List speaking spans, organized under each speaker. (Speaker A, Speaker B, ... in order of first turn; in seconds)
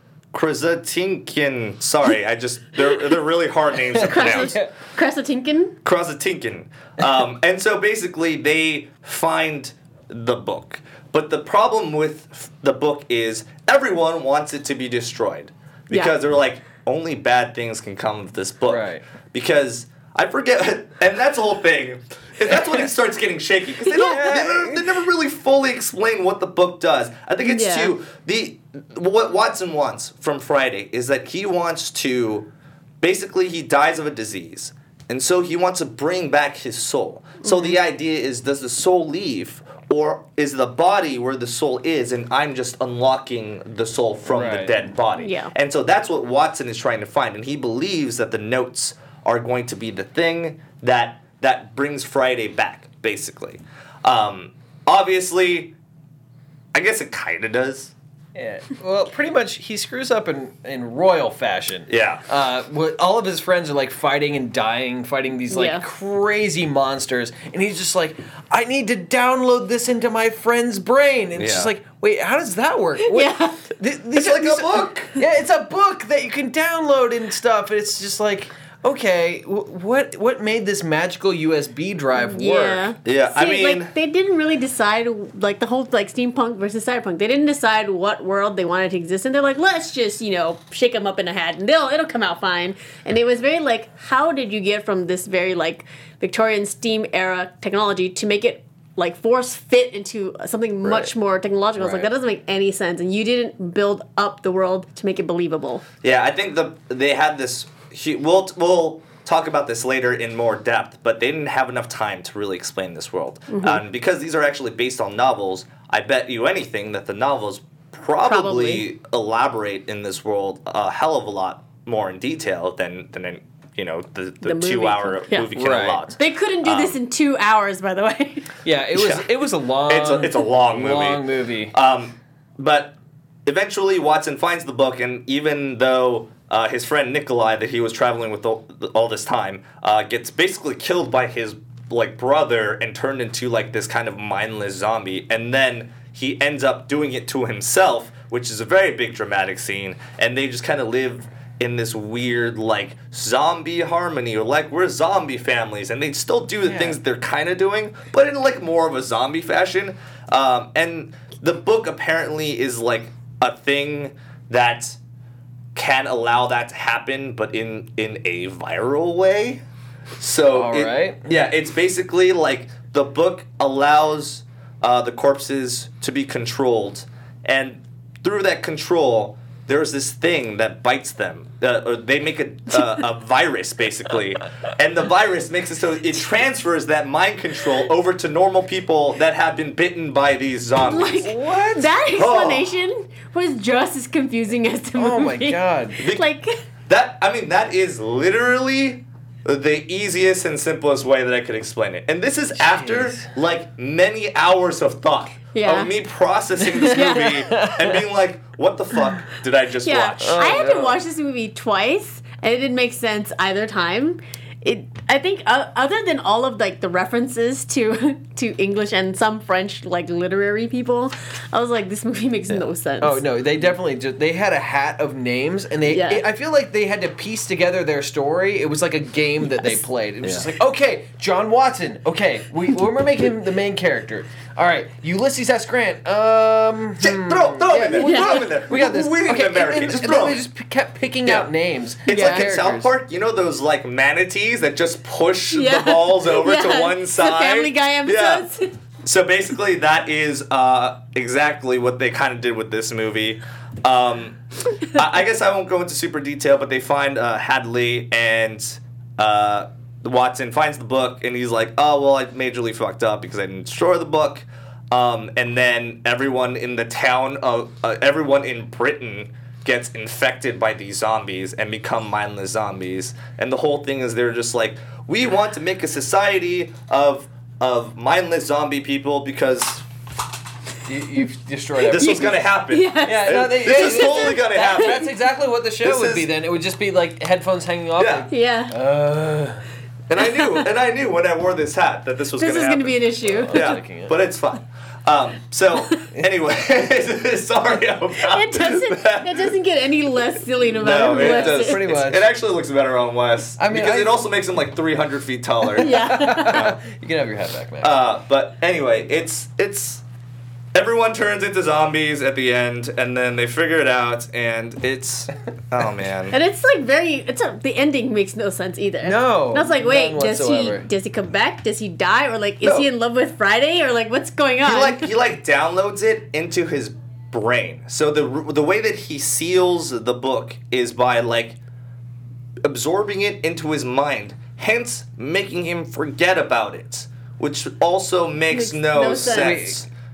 Speaker A: 0.3-4.5, 5.8-32.5, 33.0-55.7, 56.7-57.9, 61.9-62.2, 71.3-71.7, 74.1-75.1, 83.0-83.9, 106.0-127.0, 128.9-129.3, 129.8-165.0, 165.7-169.6, 170.2-191.3, 192.1-192.7, 196.0-196.3, 196.9-210.6, 230.2-230.5, 237.0-240.4, 242.1-248.5, 249.0-279.8, 281.8-285.1, 285.8-286.3, 288.0-288.3, 290.1-299.5, 300.7-306.8, 307.8-310.0, 310.7-316.4, 322.6-322.9, 324.6-331.6, 332.6-339.9
Speaker B: 4.0-4.7, 18.6-19.0, 23.9-24.9, 44.3-44.8, 58.3-82.9, 101.8-102.0, 125.5-126.0, 128.6-131.7, 156.6-157.0, 170.5-171.3, 191.2-191.9, 194.9-196.0, 202.6-203.3, 206.7-208.0, 210.2-211.0, 223.0-242.9, 280.9-282.3, 283.0-289.6, 293.2-294.1, 301.1-302.3, 303.6-304.2, 305.8-308.0, 319.0-320.9, 339.1-339.9
Speaker C: 4.1-5.8, 27.4-27.9, 37.4-37.8, 45.2-45.5, 65.5-65.8, 73.0-73.6, 82.2-105.8, 113.5-113.8, 118.2-118.8, 124.4-125.5, 126.1-128.5, 190.8-196.5, 205.5-205.9, 206.8-207.4, 209.8-223.2, 225.9-226.2, 237.7-238.5, 242.1-242.4, 245.5-248.7, 282.0-285.0, 288.3-288.7, 292.4-293.7, 298.3-301.8, 305.8-306.6, 316.3-325.1, 338.5-339.6